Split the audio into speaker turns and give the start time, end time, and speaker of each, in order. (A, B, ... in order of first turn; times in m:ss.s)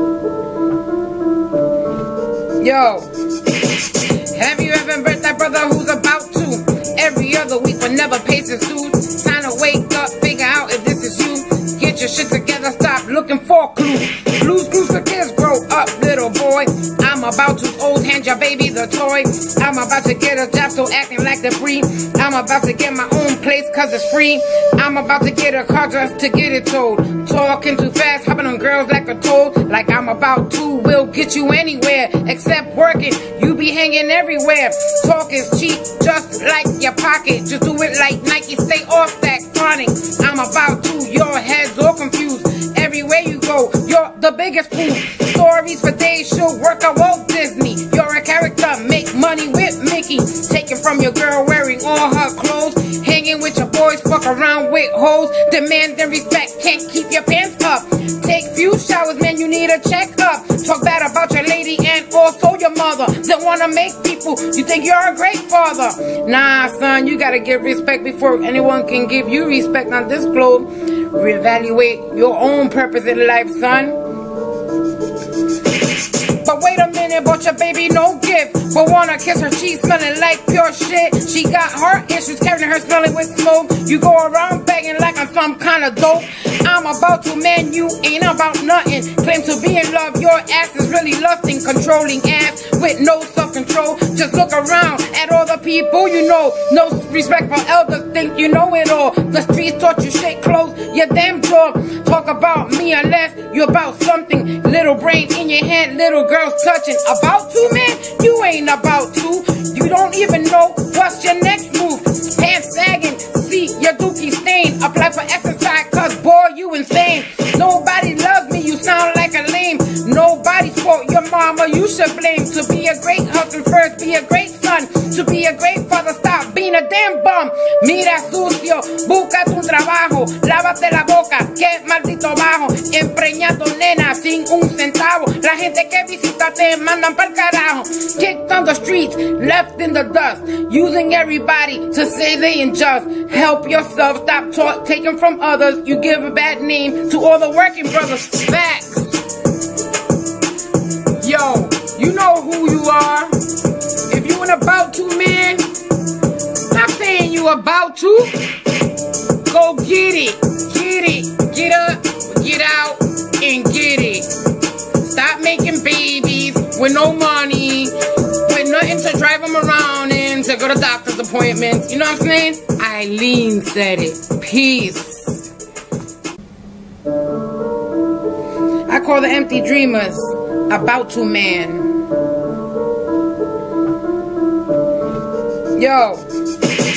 0:02.6-0:03.1 A
0:04.2-1:14.0 A
1:16.4-2:29.2 A
2:31.2-2:33.4 A
2:34.1-2:35.7 A
2:36.7-2:38.5 A
2:39.4-2:44.3 A
2:45.0-2:55.5 A
2:58.9-3:02.0 A
3:05.7-3:06.3 A